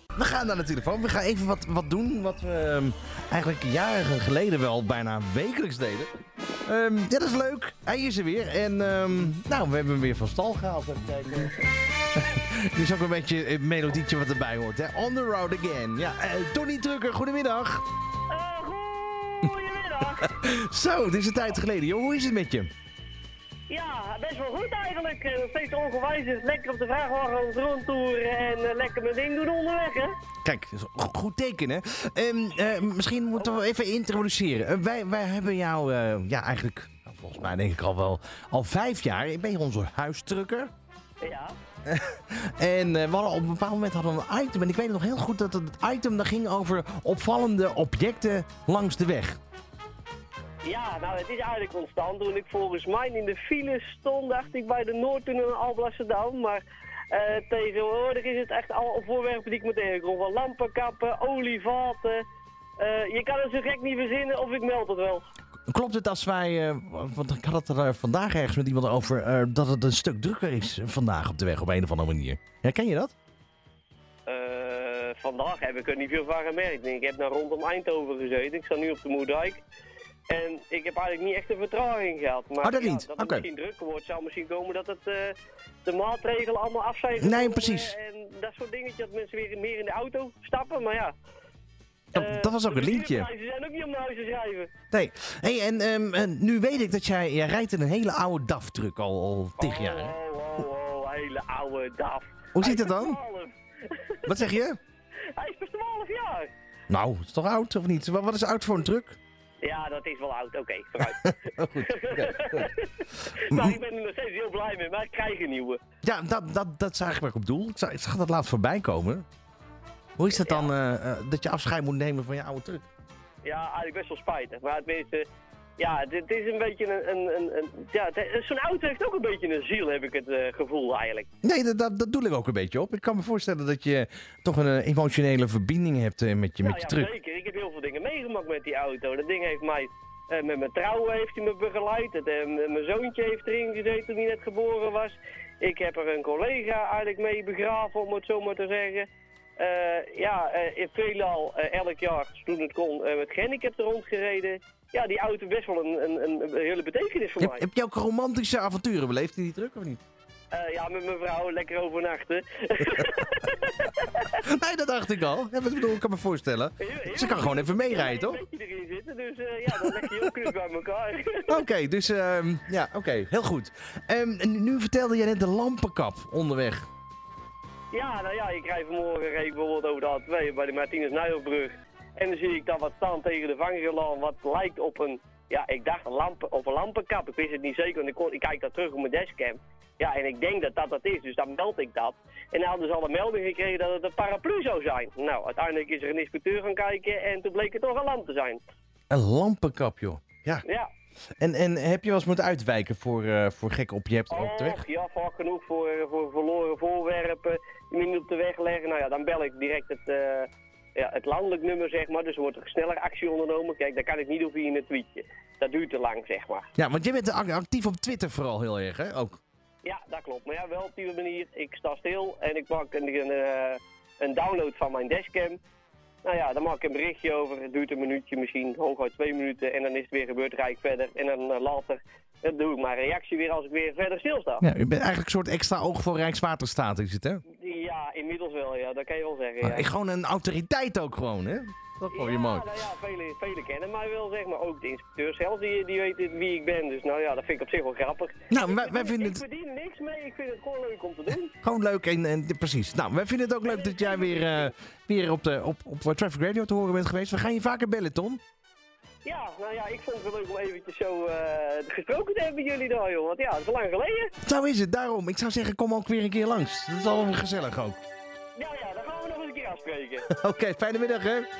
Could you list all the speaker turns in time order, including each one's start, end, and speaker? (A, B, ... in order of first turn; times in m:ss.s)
0:00.1-0:06.1 A
0:06.6-0:11.6 A
0:12.1-0:17.8 A
0:18.3-0:20.4 B
0:20.2-0:22.7 A
0:23.7-0:30.1 B
0:30.4-0:40.7 A
0:41.2-0:41.5 B
0:41.8-0:49.4 A
0:50.6-1:02.2 B
1:02.8-1:05.2 B
1:05.7-1:13.1 A
1:14.2-1:19.6 B
1:20.3-1:31.1 B
1:22.6-1:23.4 A
1:27.2-1:27.9 A
1:32.1-1:33.3 A
1:32.1-1:34.7 B
1:34.9-1:40.1 A
1:39.6-1:44.3 B
1:42.5-1:43.2 A
1:44.2-1:44.8 A
1:45.3-1:46.5 B
1:46.9-1:49.2 A
1:49.6-1:51.2 B
1:51.0-1:52.7 A
1:51.8-1:55.8 B
1:53.5-1:53.8 A
1:56.0-1:59.2 A
2:00.2-2:02.8 A
2:00.3-2:00.7 B
2:03.4-2:05.2 B
2:05.8-2:11.3 B
2:11.4-2:17.1 A
2:16.6-2:29.1 B
2:29.6-2:37.6 B
2:37.4-2:40.0 A
2:40.5-2:44.4 B
2:44.4-2:48.4 A
2:46.8-2:51.6 B
2:49.7-2:50.0 A
2:51.5-2:56.8 A
2:57.9-3:18.6 B
3:19.1-3:20.6 A
3:21.4-3:24.8 A
3:24.3-3:36.7 B
3:36.8-3:39.4 A
3:39.8-3:45.6 B
3:46.2-3:54.6 B
3:54.6-3:57.4 A
3:57.5-3:59.9 B
3:59.6-4:02.7 A
4:02.1-4:11.5 B
4:08.5-4:09.4 A
4:11.6-4:18.4 A
4:13.6-4:14.7 B
4:19.2-4:24.3 B
4:24.4-4:28.0 A
4:28.6-4:30.3 B
4:30.3-4:31.5 A